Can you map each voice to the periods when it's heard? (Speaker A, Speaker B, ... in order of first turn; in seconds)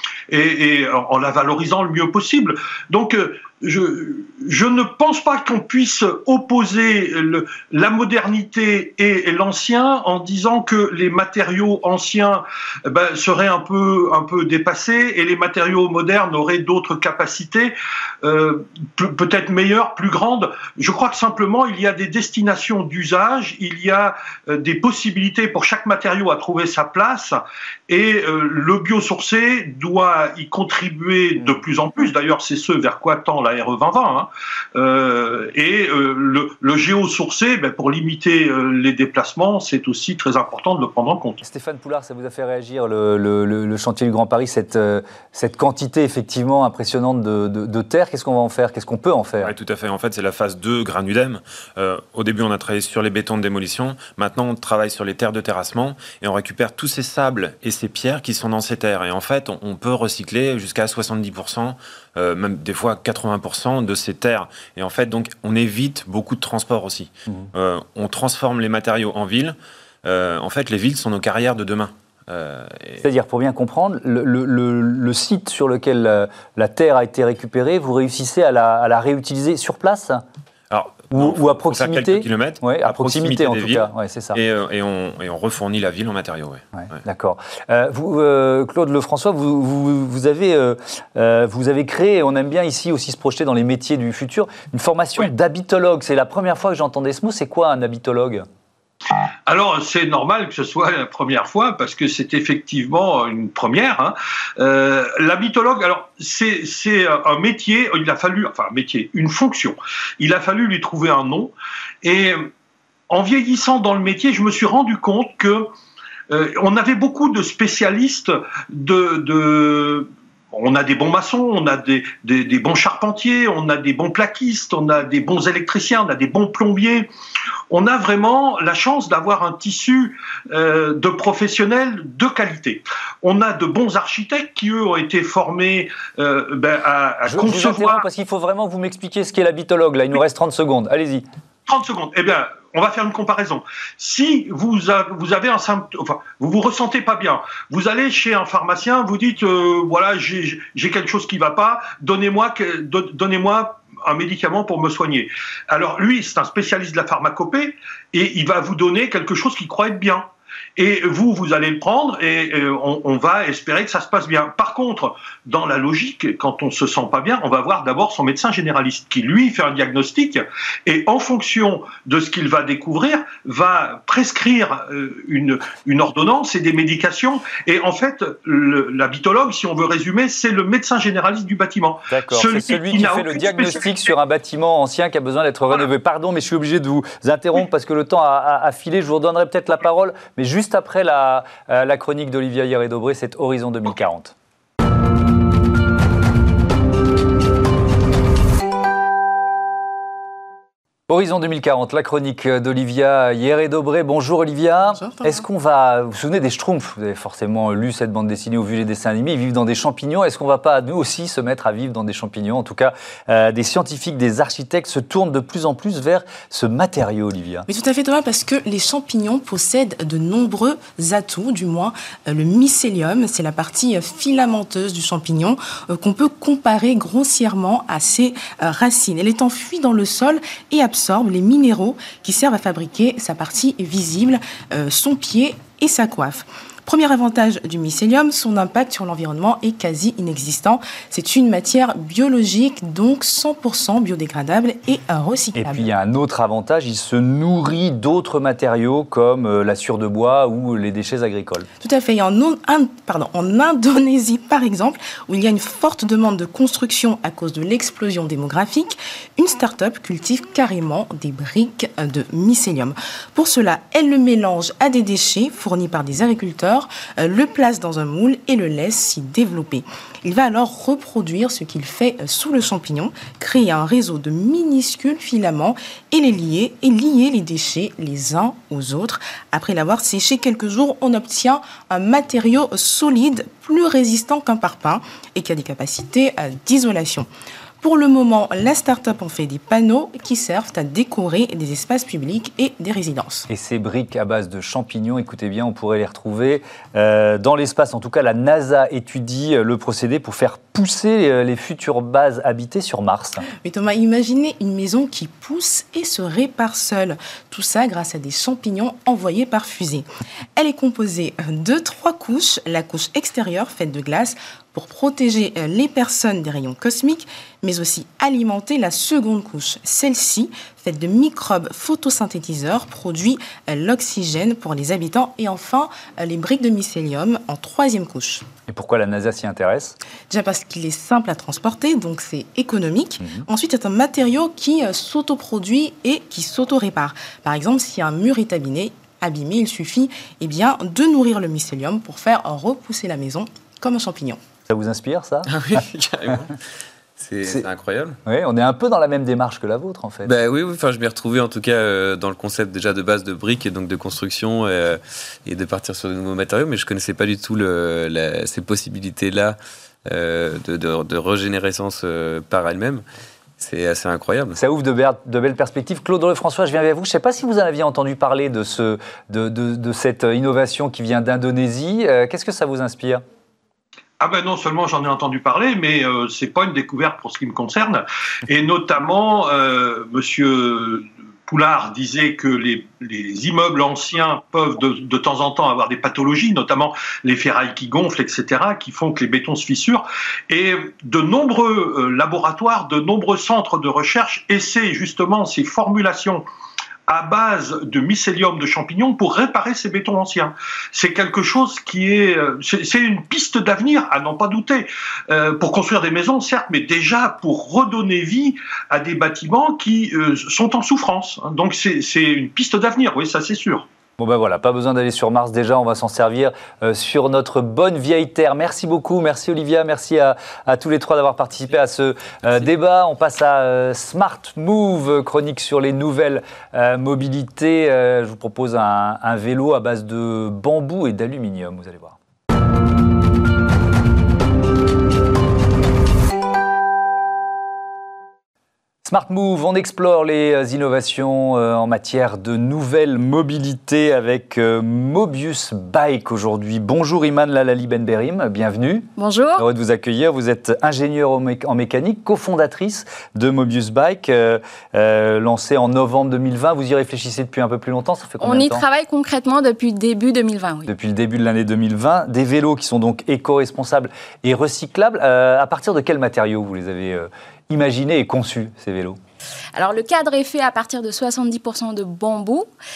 Speaker A: 0.3-41.4, 99.5-112.5, 113.1-115.7, 116.3-127.1, 127.7-138.0, 141.7-184.0, 374.2-396.4, 397.1-413.9
Speaker B: 41.4-49.5, 73.0-80.2, 81.1-84.4, 86.7-98.5, 137.2-141.2, 182.1-194.3, 201.1-217.6, 245.6-251.7, 293.5-303.4, 328.7-329.9, 344.7-345.5, 348.2-350.3, 364.5-373.2, 414.2-432.2, 439.0-458.8, 460.9-469.2
Speaker C: 49.4-73.0, 80.7-86.6
Speaker D: 204.9-205.4, 217.7-245.9, 251.8-287.3, 287.8-293.5, 303.6-328.4, 330.3-344.4
Speaker E: 345.5-346.6, 347.2-348.2, 350.2-363.0, 363.6-364.6
Speaker F: 449.1-449.6, 458.4-460.9, 469.7-472.7